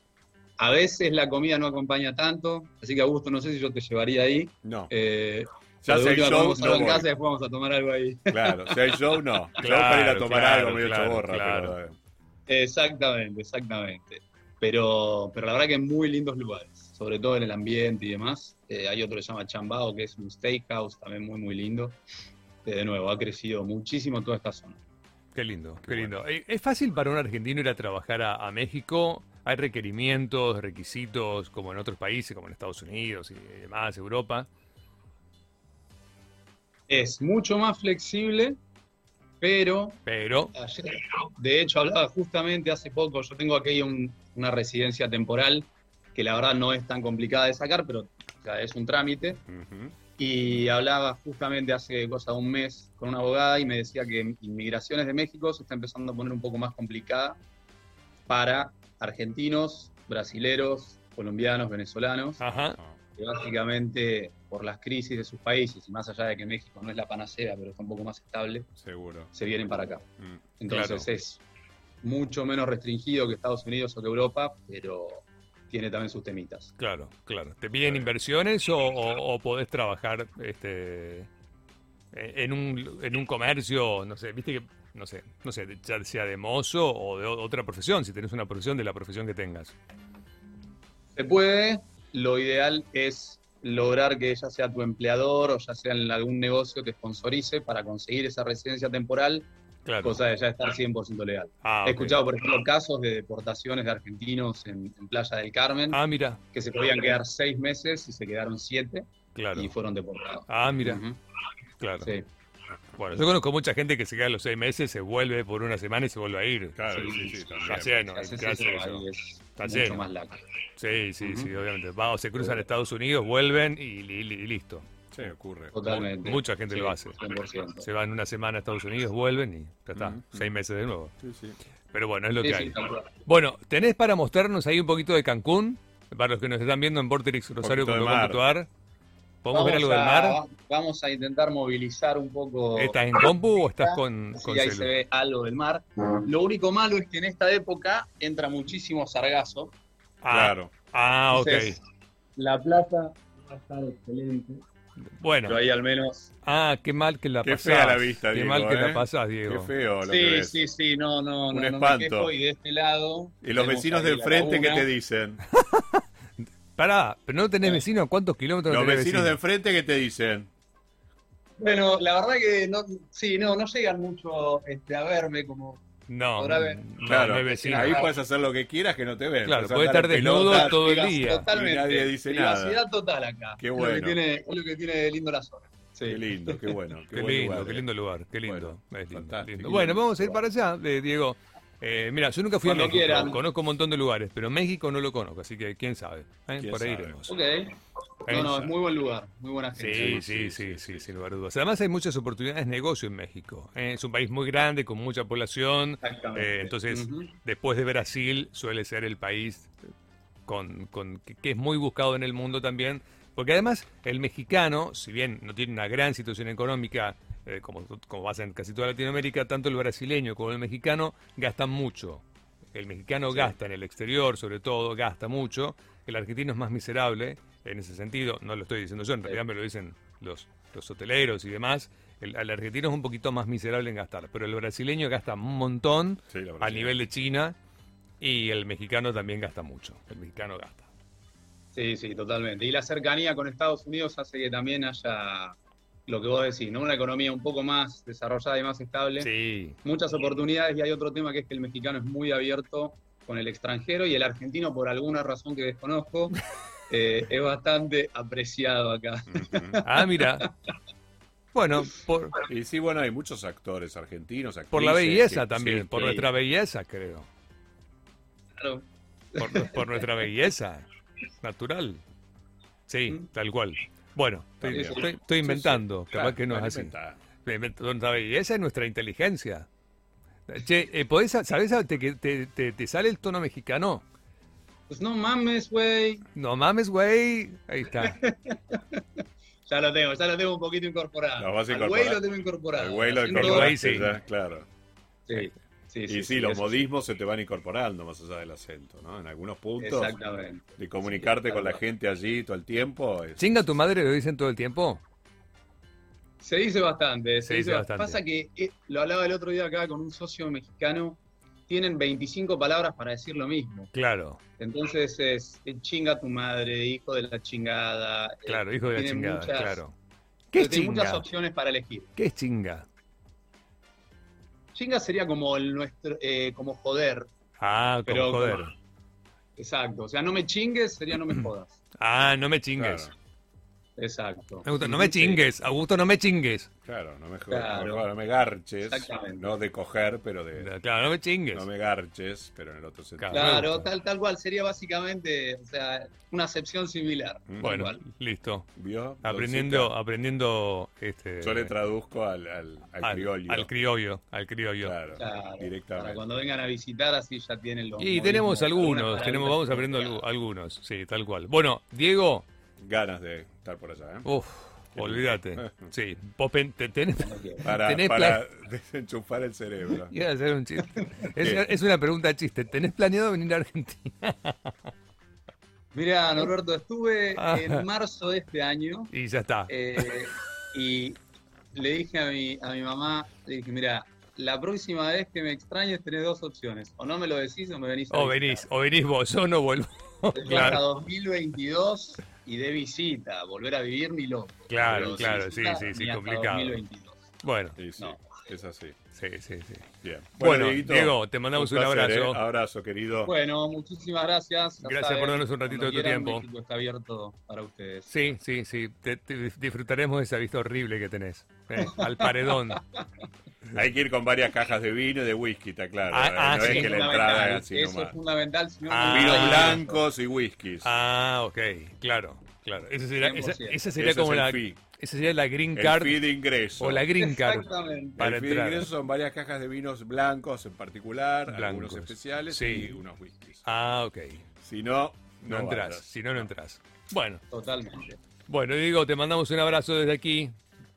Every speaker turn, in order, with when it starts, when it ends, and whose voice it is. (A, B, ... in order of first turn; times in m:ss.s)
0:00.6-0:09.2 A
0:04.6-0:04.9 B
0:05.8-0:07.1 B
0:08.3-0:12.0 B
0:09.6-0:11.8 C
0:12.5-0:22.0 A
0:22.6-0:24.8 A
0:25.3-0:34.5 C
0:25.8-0:26.2 B
0:36.9-0:38.6 A
0:39.4-0:40.0 A
0:40.1-0:40.5 C
0:40.5-0:49.4 A
0:49.5-0:50.0 B
0:50.2-0:57.4 A
0:58.3-1:02.4 A
1:02.4-1:02.8 C
1:02.4-1:03.0 B
1:03.2-1:08.7 A
1:08.8-1:09.3 B
1:09.3-1:10.0 A
1:10.6-1:11.4 A
1:10.7-1:11.1 C
1:12.0-1:16.7 A
1:16.8-1:21.3 C
1:17.8-1:18.1 B
1:22.1-1:29.7 C
1:31.2-1:39.5 A
1:39.9-1:40.2 C
1:40.0-1:46.0 A
1:41.6-1:42.2 C
1:45.9-1:46.4 C
1:46.5-1:51.2 A
1:49.4-1:49.7 C
1:50.5-1:51.0 C
1:51.8-1:52.1 C
1:53.0-1:56.8 C
1:56.8-1:58.0 B
1:56.9-2:00.4 A
1:57.6-1:59.0 C
1:59.6-2:00.0 C
2:00.8-2:04.9 C
2:01.2-2:01.5 A
2:02.4-2:02.6 A
2:05.1-2:05.8 B
2:05.7-2:07.8 A
2:05.8-2:07.2 C
2:07.8-2:11.2 C
2:10.0-2:10.5 B
2:11.2-2:11.6 B
2:11.9-2:18.7 C
2:12.4-2:13.2 A
2:17.6-2:18.5 B
2:19.4-2:20.4 C
2:19.5-2:29.7 A
2:22.8-2:24.9 C
2:30.2-2:31.8 C
2:30.3-2:30.7 B
2:31.3-2:31.8 A
2:32.4-2:34.6 A
2:35.1-2:35.6 C
2:35.5-2:36.3 A
2:36.4-2:39.7 C
2:37.4-2:40.6 B
2:40.0-2:44.9 A
2:41.5-2:42.3 B
2:43.4-2:45.4 B
2:45.7-2:46.0 C
2:46.8-2:49.4 C
2:48.7-2:50.5 B
2:51.6-2:55.8 A
2:56.1-2:58.0 C
2:56.4-2:58.1 A
2:57.0-3:00.8 B
2:59.4-3:01.5 C
3:00.2-3:06.7 A
3:01.5-3:02.8 B
3:03.6-3:04.2 B
3:06.1-3:07.9 B
3:07.1-3:17.4 C
3:08.4-3:10.1 B
3:12.6-3:13.4 A
3:16.6-3:17.2 B
3:17.3-3:20.3 A
3:18.3-3:18.7 C
3:19.8-3:29.7 C
3:19.9-3:21.1 B
3:26.0-3:27.3 A
3:30.5-3:42.2 C
3:42.7-3:57.6 C
3:56.3-3:57.1 B
3:58.2-4:00.9 C
4:01.7-4:05.6 A
4:06.1-4:09.3 A
4:09.2-4:09.8 C
4:09.8-4:16.4 A
4:16.9-4:20.5 A
4:19.3-4:19.8 B
4:19.8-4:20.5 C
4:21.5-4:22.4 C
4:22.5-4:26.3 B
4:24.7-4:27.3 C
4:28.6-4:30.1 A
4:29.4-4:30.9 C
4:31.4-4:32.0 C
4:32.9-4:39.7 C
4:34.6-4:37.2 B
4:34.7-4:35.7 A
4:40.5-4:44.0 C
4:44.9-4:46.2 A
4:46.4-4:48.2 C
4:47.9-4:49.0 A
4:49.7-4:53.8 A
4:51.4-4:52.2 B
4:52.7-4:54.7 B
4:53.3-4:54.1 C
4:55.3-4:56.9 A
4:56.1-5:00.2 B
4:59.8-5:01.8 A
5:00.8-5:03.5 B
5:03.4-5:05.0 C
5:06.4-5:13.9 A
5:07.4-5:08.2 C
5:13.9-5:14.4 C
5:14.6-5:19.8 A
5:18.5-5:19.9 C
5:20.5-5:21.3 C
5:20.6-5:22.1 A
5:22.2-5:22.9 C
5:24.7-5:27.3 A
5:27.6-5:28.7 C
5:28.1-5:28.7 A
5:29.6-5:31.8 A
5:32.0-5:33.1 C
5:32.8-5:33.1 B
5:34.0-5:35.4 A
5:34.6-5:36.7 C
5:36.8-5:40.7 B
5:37.5-5:38.1 A
5:38.8-5:39.6 A
5:40.6-5:41.7 C
5:41.5-5:43.6 B
5:43.2-5:43.9 C
5:43.3-5:48.0 A
5:47.6-5:48.7 C
5:48.8-5:49.9 B
5:49.2-5:51.7 C
5:51.4-5:53.7 B
5:53.0-5:55.0 C
5:54.8-5:56.2 B
5:55.2-6:00.2 A
5:58.0-6:02.4 C
6:02.8-6:04.3 B
6:04.2-6:08.4 C
6:05.0-6:05.9 B
6:07.2-6:07.6 A
6:07.6-6:10.1 B
6:10.1-6:14.8 C
6:11.4-6:11.6 B
6:15.9-6:19.1 A
6:17.4-6:17.9 C
6:19.1-6:20.0 C
6:19.7-6:21.2 A
6:21.7-6:28.7 A
6:28.1-6:30.8 C
6:30.3-6:37.3 A
6:34.7-6:36.8 C
6:35.0-6:35.4 B
6:37.4-6:37.8 C
6:37.8-6:39.0 B
6:38.0-6:38.2 A
6:39.2-6:39.9 C
6:40.0-6:43.3 B
6:40.4-6:42.4 C
6:43.2-6:48.1 A
6:44.8-6:46.5 C
6:48.1-6:52.8 C
6:51.8-6:53.0 A
6:53.7-6:58.2 B
6:56.1-6:57.0 C
6:56.6-7:00.0 A
6:58.9-6:59.8 C
6:59.1-7:00.9 B
7:00.8-7:06.2 C
7:03.2-7:03.8 A
7:04.0-7:04.8 B
7:05.8-7:07.1 B
7:06.8-7:08.9 C
7:07.2-7:08.2 A
7:08.2-7:13.7 B
7:11.5-7:13.0 C
7:13.6-7:14.4 C
7:14.6-7:16.5 B
7:15.5-7:17.4 C
7:17.5-7:18.2 A
7:18.5-7:20.6 C